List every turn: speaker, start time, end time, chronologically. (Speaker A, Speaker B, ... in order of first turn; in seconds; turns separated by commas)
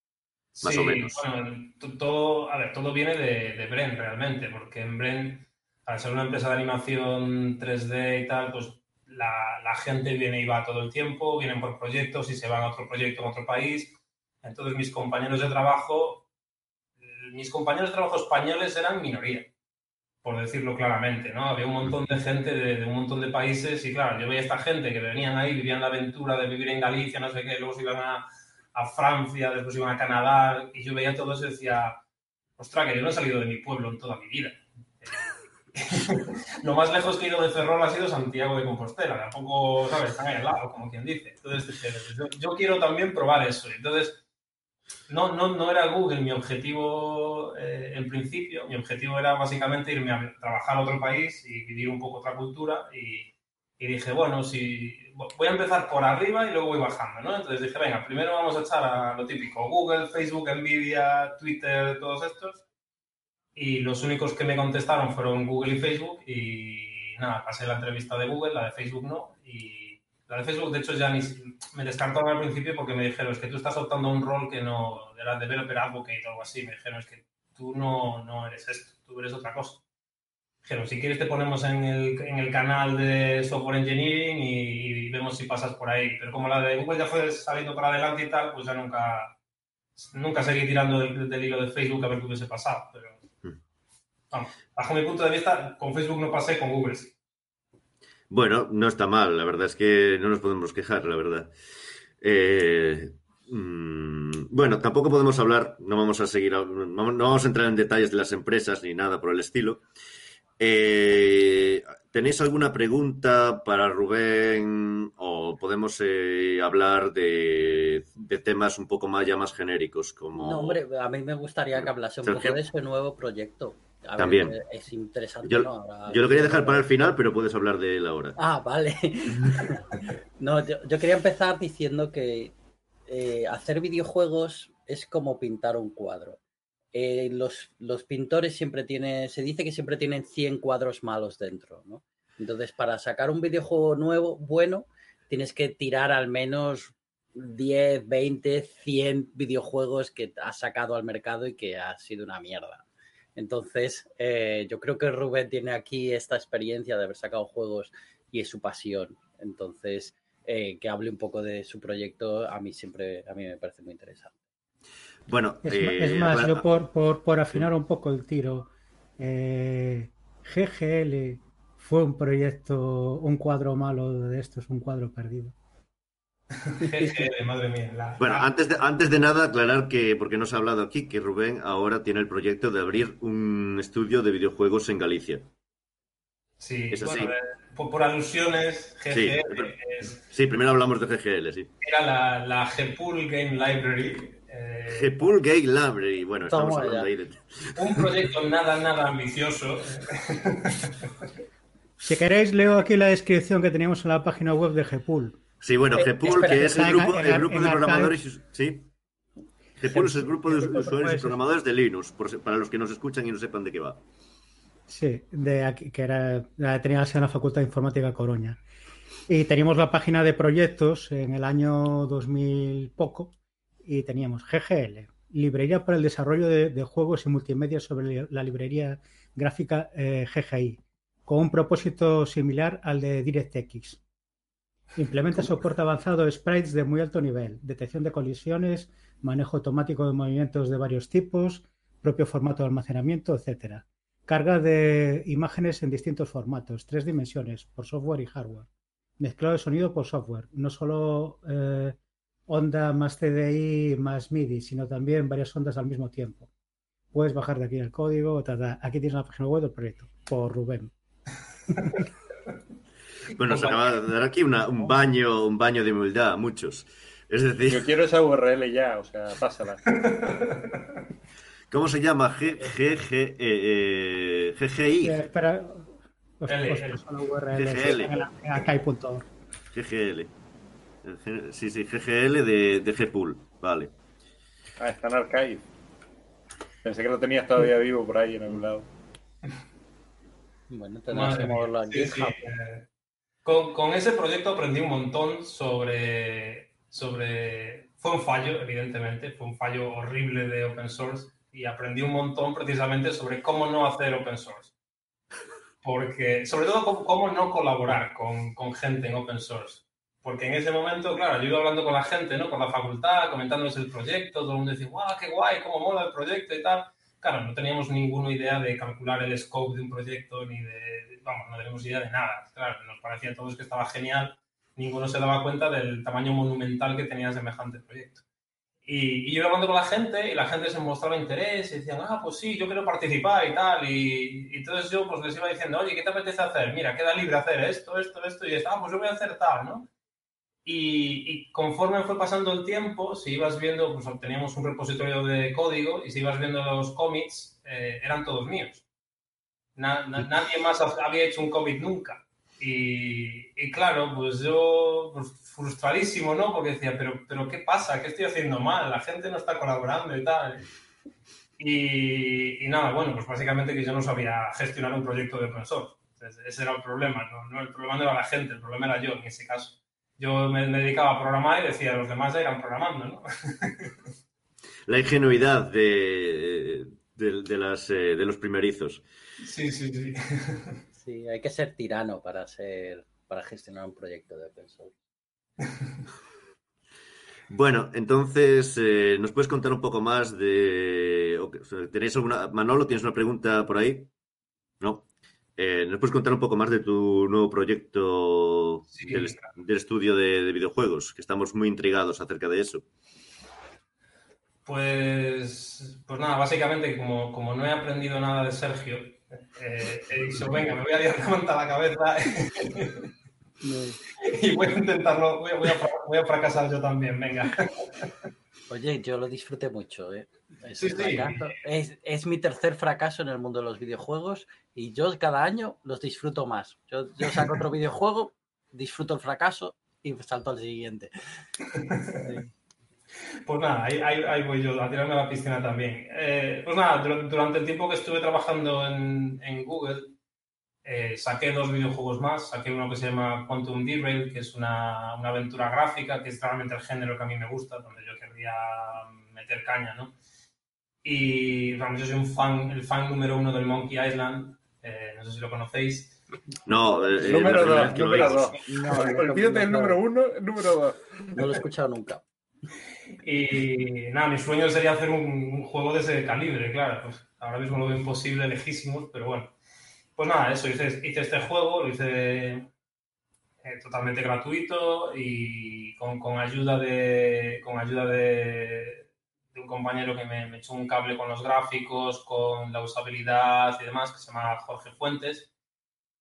Speaker A: 0.5-16.2, Speaker B: 0.6-1.2, Speaker A: 17.1-19.5, Speaker A: 20.2-32.0, Speaker A: 32.6-44.2, Speaker A: 45.1-62.6, Speaker A: 63.5-79.8, Speaker A: 80.6-89.3, Speaker A: 90.0-93.2, Speaker A: 94.3-97.1, Speaker B: 98.3-101.5, Speaker B: 102.2-109.8, Speaker B: 110.6-120.8, Speaker C: 120.3-127.1, Speaker B: 121.7-122.6, Speaker B: 124.2-124.6, Speaker B: 125.4-128.4, Speaker C: 128.4-132.5, Speaker C: 133.1-136.4, Speaker C: 136.9-152.8, Speaker C: 153.3-164.3, Speaker B: 165.3-166.6, Speaker D: 165.6-175.5, Speaker A: 176.6-178.5, Speaker B: 178.2-185.4, Speaker A: 186.6-190.2, Speaker B: 186.9-187.3, Speaker B: 189.1-189.7, Speaker B: 190.3-191.7, Speaker A: 191.8-195.3, Speaker B: 194.9-198.2, Speaker C: 196.5-197.1, Speaker A: 197.8-201.1, Speaker D: 202.0-205.4, Speaker B: 205.6-208.9, Speaker C: 205.9-207.2, Speaker D: 206.6-208.2, Speaker B: 209.8-214.0, Speaker D: 209.9-211.4, Speaker D: 214.9-218.6, Speaker D: 219.3-223.3, Speaker D: 223.8-234.0, Speaker D: 234.9-252.0, Speaker D: 252.5-256.5, Speaker D: 257.1-260.9, Speaker B: 263.3-267.9, Speaker A: 263.4-263.8, Speaker E: 267.7-269.8, Speaker A: 269.9-270.9, Speaker B: 271.7-275.2, Speaker D: 275.0-279.2, Speaker A: 276.5-277.0, Speaker B: 277.5-278.3, Speaker B: 279.7-280.3, Speaker B: 281.0-283.9, Speaker E: 284.8-285.6, Speaker E: 286.8-288.9, Speaker C: 290.7-292.4, Speaker A: 291.1-292.8, Speaker A: 293.4-304.7, Speaker A: 305.8-328.2, Speaker A: 328.9-339.9, Speaker A: 340.6-348.8, Speaker A: 349.8-360.6, Speaker A: 361.6-373.9, Speaker B: 374.9-379.0, Speaker A: 379.4-380.8, Speaker C: 380.9-384.9, Speaker B: 387.5-394.1, Speaker B: 394.8-395.1, Speaker B: 395.6-402.8, Speaker A: 398.9-399.4, Speaker A: 404.6-413.1, Speaker C: 413.6-414.0, Speaker A: 414.2-418.1, Speaker C: 418.7-431.1, Speaker A: 420.8-421.5, Speaker A: 427.2-427.5, Speaker C: 431.7-432.5, Speaker A: 431.8-432.2, Speaker A: 433.4-440.1, Speaker A: 440.8-450.1, Speaker A: 451.0-456.2, Speaker B: 456.6-458.6, Speaker E: 457.2-461.0, Speaker C: 457.3-460.0, Speaker C: 461.3-462.2, Speaker A: 463.2-469.5, Speaker A: 470.1-472.7, Speaker A: 473.6-485.5